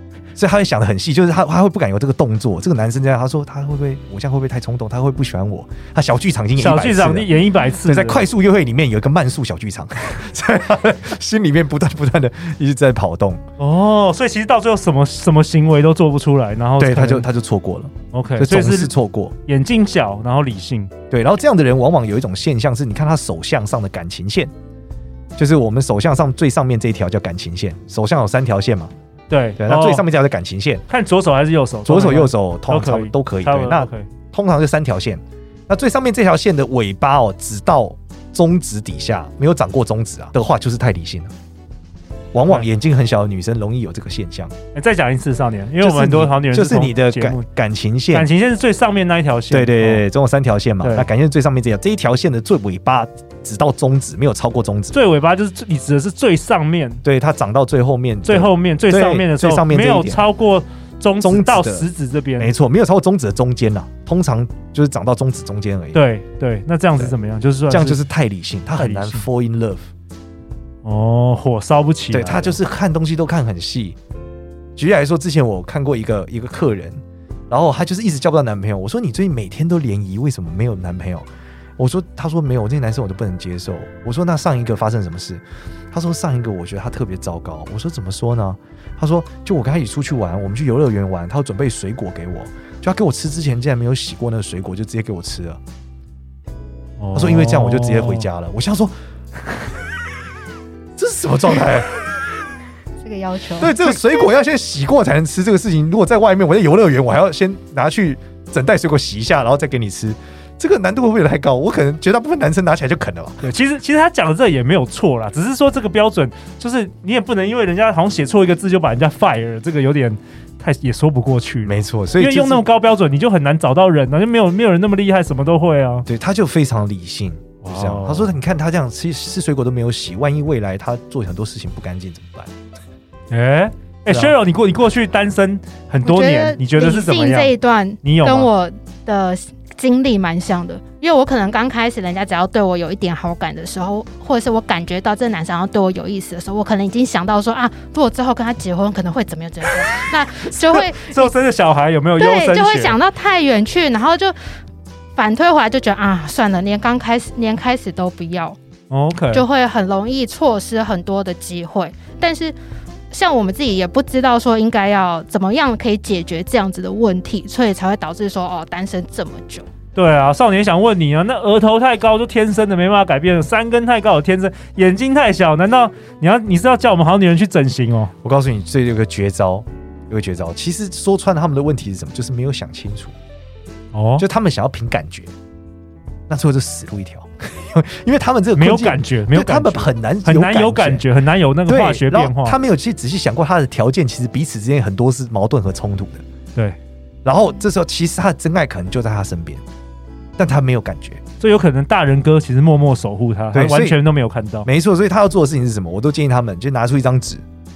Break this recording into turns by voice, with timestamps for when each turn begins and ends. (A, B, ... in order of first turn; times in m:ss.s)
0:00.4-0:07.3 A
0:06.6-0:08.2 B
0:07.8-0:13.4 A
0:13.6-0:17.3 B
0:16.8-0:19.3 A
0:18.1-0:18.9 B
0:19.4-0:20.9 B
0:21.1-0:24.5 A
0:25.4-0:28.9 A
0:29.3-0:30.0 B
0:29.6-0:30.8 A
0:30.9-0:34.1 B
0:31.9-0:41.3 A
0:42.3-0:44.5 A
0:44.7-0:47.4 B
0:45.8-0:48.3 A
0:48.1-0:50.0 B
0:49.5-0:55.0 A
0:50.8-0:51.1 B
0:54.9-0:57.0 B
0:57.0-1:00.3 A
0:58.2-1:02.5 B
1:01.2-1:01.9 A
1:02.4-1:06.0 A
1:05.9-1:08.0 B
1:07.7-1:09.9 A
1:08.7-1:09.3 B
1:10.8-1:12.6 B
1:12.1-1:14.0 A
1:14.8-1:21.3 A
1:21.8-1:35.6 A
1:37.0-1:38.3 B
1:37.1-1:38.9 A
1:41.0-1:42.0 A
1:43.0-1:44.0 C
1:43.6-1:53.4 A
1:53.4-2:06.1 B
2:01.6-2:02.6 A
2:06.1-2:12.5 A
2:07.6-2:08.3 B
2:13.3-2:17.5 B
2:14.1-2:14.4 A
2:16.0-2:31.3 C
2:18.0-2:18.5 B
2:30.5-2:33.0 B
2:32.2-2:34.4 C
2:35.1-2:38.6 C
2:38.9-2:39.4 B
2:39.3-2:42.6 C
2:43.1-2:49.7 C
2:50.0-2:58.1 B
2:58.2-3:03.1 A
3:03.9-3:04.2 B
3:04.2-3:05.3 A
3:06.3-3:11.0 A
3:08.5-3:12.6 B
3:11.7-3:16.2 A
3:17.2-3:19.6 A
3:20.4-3:21.2 A
3:21.4-3:24.7 B
3:23.5-3:24.0 A
3:24.6-3:27.4 A